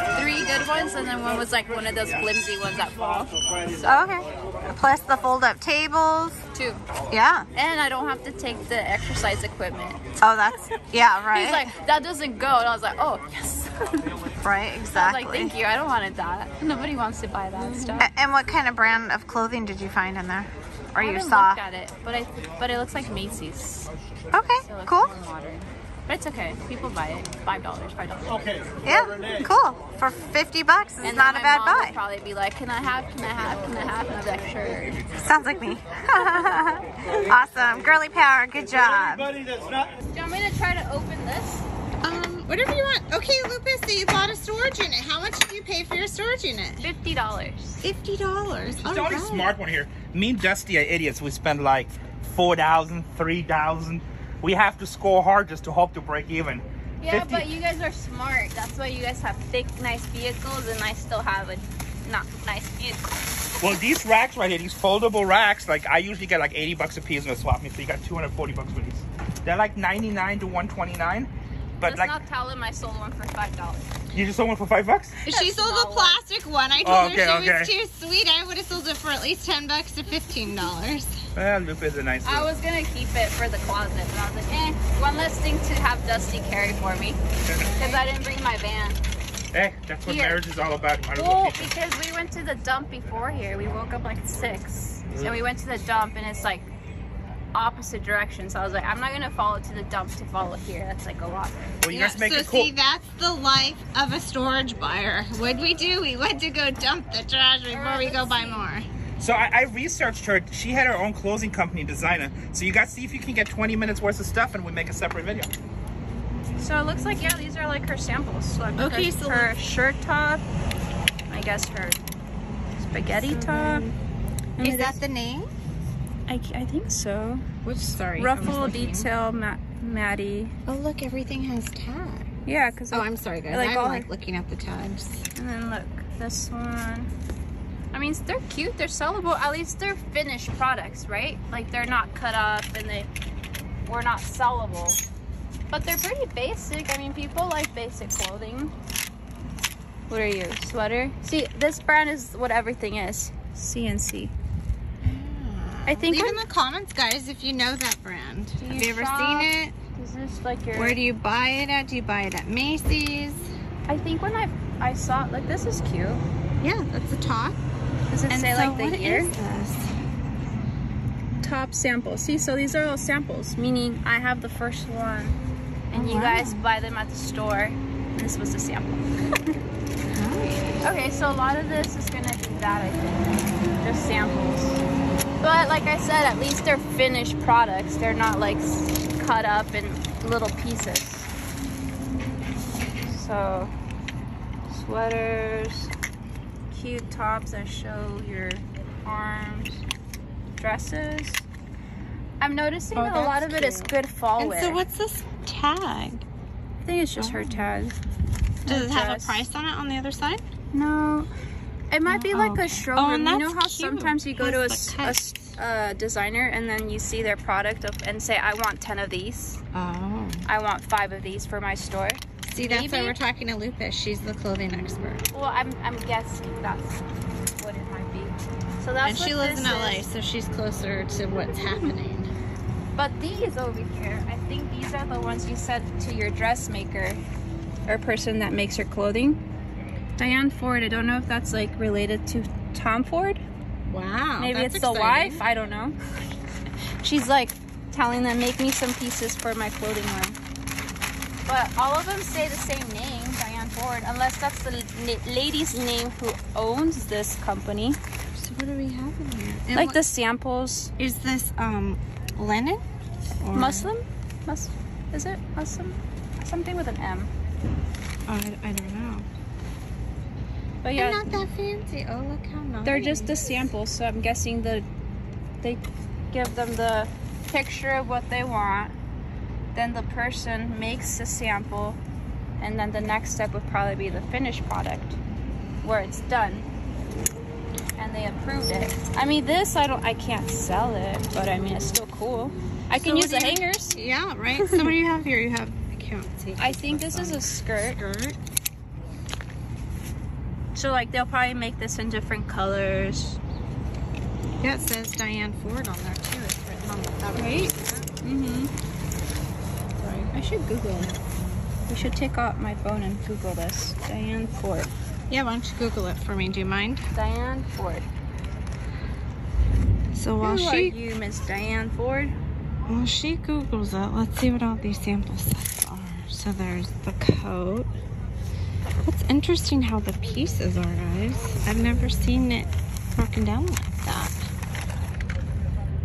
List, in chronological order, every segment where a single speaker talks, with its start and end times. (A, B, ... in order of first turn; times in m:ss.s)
0:00.1-0:04.0 A
0:03.8-0:06.4 B
0:06.6-0:06.8 A
0:07.1-0:07.5 B
0:07.5-0:10.0 A
0:10.2-0:11.7 B
0:11.3-0:14.1 A
0:14.4-0:15.5 B
0:14.9-0:18.1 A
0:17.6-0:21.6 B
0:21.0-0:23.9 A
0:24.3-0:25.1 B
0:24.6-0:28.5 A
0:28.8-0:32.0 B
0:31.0-0:35.0 A
0:35.2-0:39.3 B
0:40.1-0:41.7 A
0:42.0-0:46.9 B
0:46.8-0:47.8 A
0:47.8-0:49.5 B
0:48.8-0:57.5 C
0:57.0-1:03.8 A
1:03.6-1:11.3 C
1:11.8-1:12.2 C
1:11.8-1:13.9 A
1:14.1-1:15.2 C
1:15.2-1:16.2 A
1:15.3-1:21.2 B
1:16.8-1:17.7 C
1:21.4-1:22.5 C
1:22.2-1:27.2 A
1:27.5-1:27.7 C
1:27.7-1:28.0 B
1:27.7-1:29.0 A
1:29.5-1:31.7 C
1:30.0-1:30.4 A
1:31.2-1:36.7 A
1:37.5-1:41.8 A
1:41.8-1:42.7 C
1:41.9-1:48.9 B
1:47.7-1:48.7 A
1:49.2-1:55.5 C
1:56.6-2:00.4 A
1:58.8-1:59.5 B
2:01.3-2:02.0 A
2:02.8-2:03.9 A
2:03.1-2:04.0 B
2:04.6-2:05.0 A
2:04.6-2:05.5 B
2:06.3-2:07.5 A
2:07.6-2:09.1 B
2:08.1-2:10.6 A
2:10.7-2:12.3 B
2:12.4-2:14.1 A
2:12.9-2:15.3 B
2:15.4-2:17.1 A
2:17.9-2:23.1 A
2:23.9-2:25.0 A
2:25.7-2:28.7 A
2:30.1-2:34.3 A
2:35.0-2:39.7 B
2:35.9-2:36.4 A
2:38.6-2:41.0 A
2:40.7-2:43.5 B
2:43.9-2:46.2 A
2:46.6-2:47.6 B
2:48.1-2:49.3 A
2:48.3-2:49.9 B
2:51.4-2:55.4 A
2:55.9-2:59.6 A
2:55.9-2:56.6 B
3:00.1-3:00.8 B
3:00.8-3:04.8 A
3:05.4-3:11.3 A
3:13.1-3:13.7 A
3:14.7-3:15.9 A
3:16.7-3:19.8 A
3:20.6-3:21.4 A
3:22.4-3:24.8 A
3:22.9-3:26.2 B
3:26.8-3:28.0 A
3:27.2-3:27.8 B
3:28.6-3:29.5 A
3:28.7-3:30.4 B
3:30.7-3:31.3 A
3:31.9-3:39.6 A
3:32.1-3:35.6 B
3:39.7-3:40.5 B
3:40.5-3:43.2 A
3:42.5-3:45.2 B
3:45.3-3:47.0 A
3:47.6-3:50.1 A
3:49.0-3:52.3 B
3:51.5-3:51.9 A
3:53.0-3:57.2 A
3:57.9-3:59.4 A
4:00.2-4:03.4 A
4:03.9-4:05.4 B
4:04.4-4:06.0 A
4:07.0-4:10.4 A
4:11.4-4:18.0 A
4:18.4-4:20.0 B
4:19.7-4:20.9 A
4:21.0-4:22.8 B
4:23.4-4:23.9 B
4:23.5-4:27.3 A
4:28.3-4:29.3 B
4:30.8-4:31.5 A
4:31.0-4:33.4 B
4:32.8-4:34.9 A
4:35.6-4:38.9 A
4:39.7-4:42.0 A
4:42.6-4:45.2 A
4:45.8-4:46.7 A
4:48.0-4:54.0 A
4:52.9-4:58.4 B
4:54.6-4:54.9 A
4:56.6-4:58.0 A
5:00.7-5:03.4 A
5:04.6-5:08.1 B
5:07.4-5:08.7 A
5:10.0-5:10.3 B
5:10.3-5:11.1 A
5:11.9-5:14.9 A
5:15.3-5:17.1 B
5:17.1-5:18.1 A
5:20.1-5:21.0 B
5:20.4-5:22.3 A
5:22.9-5:27.9 B
5:29.0-5:34.5 B